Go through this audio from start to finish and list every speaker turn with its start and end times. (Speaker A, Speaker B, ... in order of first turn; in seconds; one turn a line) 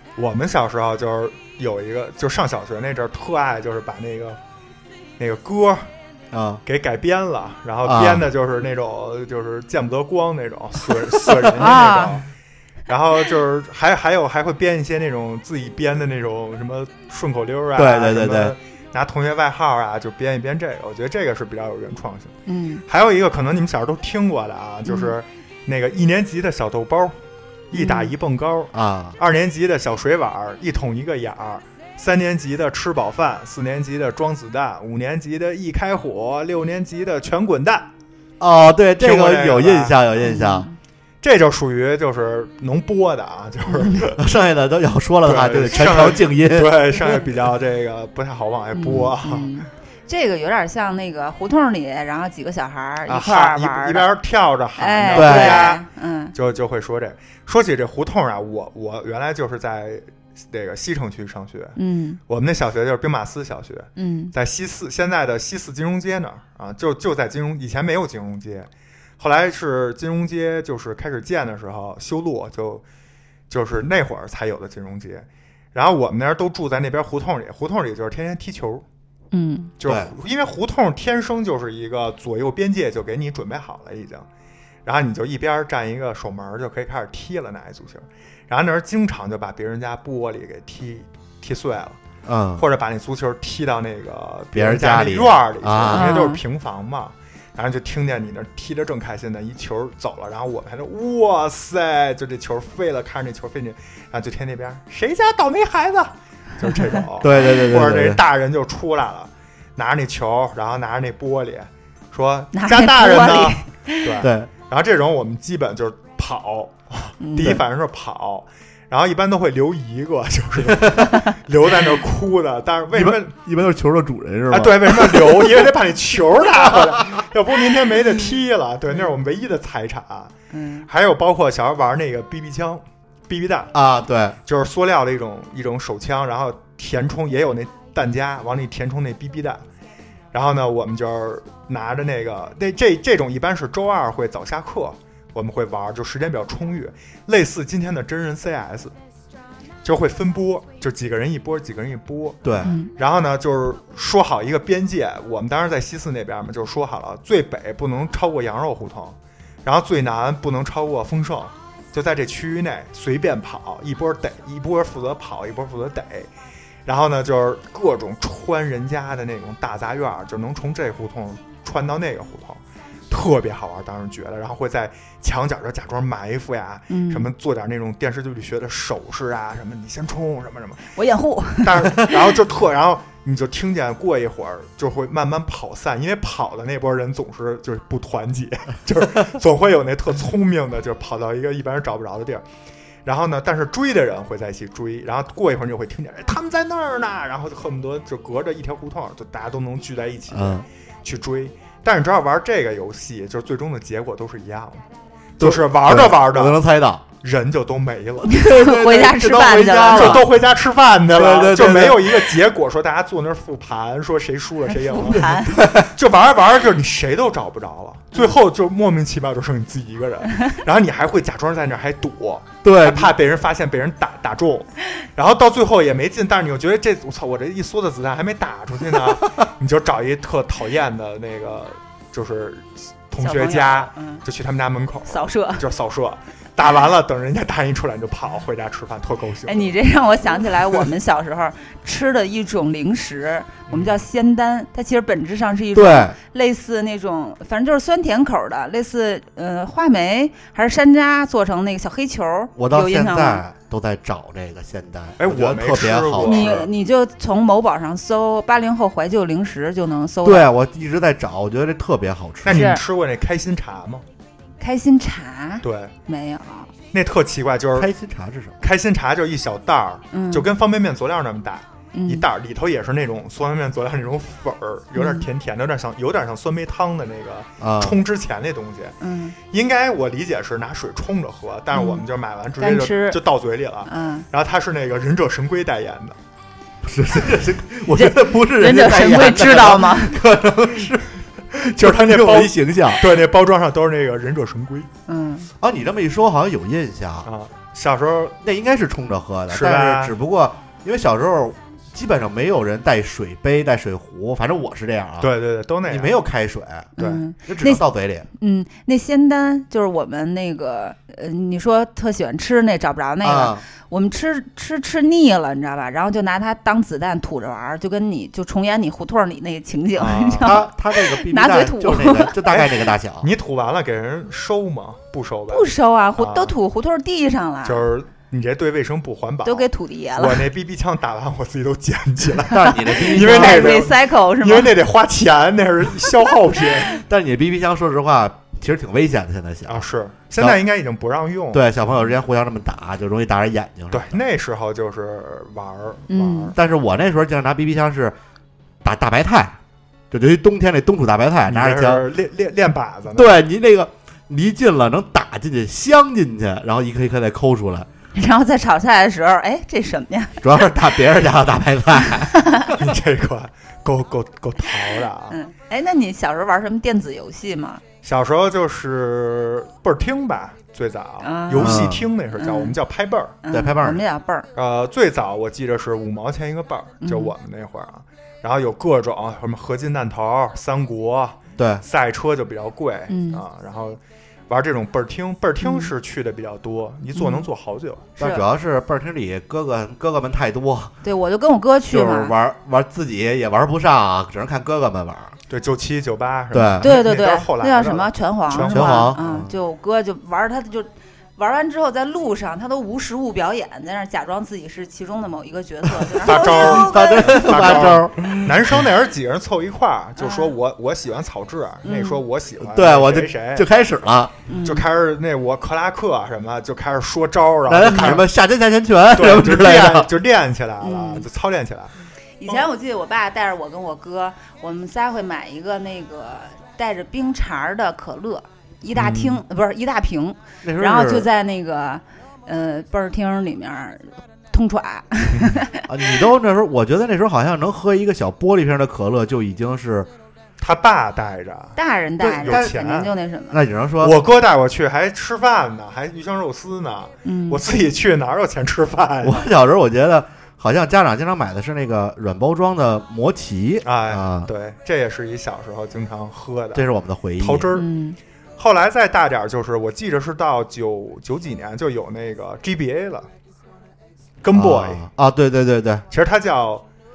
Speaker A: 0.2-4.4
Speaker A: 5.2-5.9
Speaker B: 6.3-6.6
Speaker A: 6.6-12.3
Speaker B: 7.8-8.2
Speaker C: 11.6-12.1
Speaker A: 12.9-22.3
Speaker B: 17.8-18.5
Speaker C: 22.5-22.8
Speaker A: 22.9-27.2
Speaker C: 24.9-25.1
Speaker A: 27.7-37.9
Speaker C: 27.7-28.1
Speaker B: 28.7-29.1
Speaker B: 38.4-40.7
Speaker A: 39.0-40.0
Speaker C: 40.2-40.8
Speaker A: 41.2-44.2
Speaker C: 43.7-44.0
Speaker B: 44.2-46.8
Speaker A: 45.2-49.6
Speaker C: 48.8-54.1
Speaker A: 53.1-61.8
Speaker C: 54.8-56.3
Speaker B: 55.1-55.8
Speaker C: 61.8-62.2
Speaker A: 62.3-72.8
Speaker C: 64.0-64.3
Speaker A: 73.5-78.8
Speaker C: 79.3-79.7
Speaker A: 79.8-84.3
Speaker B: 79.8-80.1
Speaker A: 84.8-92.0
Speaker B: 92.2-92.6
Speaker A: 92.5-123.3
Speaker B: 94.5-96.1
Speaker C: 95.9-96.4
Speaker C: 106.7-107.0
Speaker B: 107.2-108.2
Speaker C: 112.5-114.1
Speaker B: 114.2-114.5
Speaker C: 117.2-117.6
Speaker B: 120.8-121.1
Speaker B: 122.9-125.7
Speaker A: 124.5-130.3
Speaker B: 126.6-127.0
Speaker C: 130.5-130.9
Speaker A: 130.9-133.7
Speaker B: 133.7-134.4
Speaker A: 134.4-139.6
Speaker A: 140.3-148.9
Speaker A: 149.8-152.4
Speaker B: 152.4-152.8
Speaker C: 152.6-152.9
Speaker A: 152.9-166.3
Speaker A: 166.8-180.9
Speaker C: 176.9-177.3
Speaker C: 180.9-182.2
Speaker A: 181.6-192.4
Speaker A: 193.0-204.8
Speaker B: 200.3-200.6
Speaker A: 205.4-206.6
Speaker B: 205.4-207.0
Speaker A: 207.2-208.4
Speaker B: 208.2-210.3
Speaker C: 208.3-210.2
Speaker A: 209.9-239.8
Speaker B: 211.1-212.3
Speaker C: 214.8-215.6
Speaker B: 215.2-215.9
Speaker B: 222.6-223.1
Speaker C: 233.2-234.2
Speaker C: 235.1-235.6
Speaker C: 239.4-253.4
Speaker A: 243.7-244.0
Speaker B: 245.8-246.2
Speaker B: 252.6-256.6
Speaker A: 255.2-256.7
Speaker C: 256.2-260.5
Speaker B: 260.2-262.7
Speaker A: 262.4-264.0
Speaker C: 262.5-262.8
Speaker C: 264.6-266.7
Speaker A: 265.6-265.9
Speaker A: 266.9-267.9
Speaker B: 267.8-268.6
Speaker A: 268.6-279.0
Speaker C: 270.1-270.5
Speaker C: 271.9-272.2
Speaker C: 274.9-275.2
Speaker B: 277.6-278.0
Speaker C: 279.0-279.4
Speaker A: 279.5-286.2
Speaker C: 281.7-282.0
Speaker C: 282.6-283.2
Speaker C: 283.9-284.3
Speaker B: 286.8-291.1
Speaker C: 287.9-290.2
Speaker A: 291.5-294.9
Speaker B: 291.6-293.1
Speaker C: 295.1-295.5
Speaker B: 295.6-297.3
Speaker A: 297.2-298.4
Speaker B: 298.4-305.3
Speaker A: 299.5-300.1
Speaker A: 305.2-306.1
Speaker B: 305.9-306.9
Speaker C: 307.0-307.8
Speaker A: 307.0-307.2
Speaker B: 307.5-308.3
Speaker C: 308.4-322.4
Speaker B: 313.2-313.6
Speaker A: 319.9-320.6
Speaker B: 320.4-323.3
Speaker A: 322.4-326.5
Speaker C: 325.5-327.8
Speaker A: 327.6-336.9
Speaker C: 329.4-330.4
Speaker B: 332.5-333.8
Speaker C: 332.9-334.7
Speaker B: 336.9-339.9
Speaker A: 339.7-341.7
Speaker B: 341.5-344.2
Speaker A: 343.9-346.5
Speaker C: 346.1-346.5
Speaker B: 346.5-348.2
Speaker B: 348.8-349.6
Speaker B: 350.1-352.0
Speaker A: 351.5-353.4
Speaker B: 353.1-357.9
Speaker C: 358.1-360.4
Speaker B: 360.4-362.7
Speaker C: 362.4-362.7
Speaker A: 362.7-365.4
Speaker C: 365.3-367.8
Speaker A: 368.0-373.4
Speaker C: 371.2-372.8
Speaker B: 371.6-372.0
Speaker C: 373.4-374.5
Speaker B: 373.5-374.0
Speaker A: 374.5-388.1
Speaker C: 377.0-377.3
Speaker B: 381.6-381.8
Speaker C: 383.1-383.4
Speaker C: 385.6-385.9
Speaker C: 387.1-387.5
Speaker C: 388.2-388.4
Speaker B: 388.2-390.9
Speaker C: 391.0-392.3
Speaker B: 391.9-395.3
Speaker A: 395.5-399.2
Speaker B: 396.5-396.9
Speaker C: 396.8-407.9
Speaker B: 398.6-399.5
Speaker A: 406.2-413.7
Speaker B: 406.3-408.5
Speaker C: 410.2-410.5
Speaker C: 411.8-412.2
Speaker B: 412.6-414.3
Speaker C: 414.5-414.9
Speaker A: 414.6-418.3
Speaker B: 417.6-420.1
Speaker C: 417.9-418.1
Speaker A: 419.1-421.9
Speaker C: 420.8-421.2
Speaker C: 422.4-435.9
Speaker A: 428.9-429.4
Speaker B: 430.6-431.3
Speaker A: 435.3-435.6
Speaker B: 435.9-440.1
Speaker A: 440.6-443.1
Speaker C: 441.8-443.6
Speaker B: 442.4-442.7
Speaker B: 443.5-444.2
Speaker A: 444.0-449.5
Speaker C: 447.2-447.6
Speaker B: 449.2-454.5
Speaker A: 453.8-457.9
Speaker B: 456.7-457.7
Speaker C: 457.7-458.2
Speaker A: 458.6-463.3
Speaker A: 464.4-465.1
Speaker B: 464.5-466.0
Speaker A: 466.1-466.9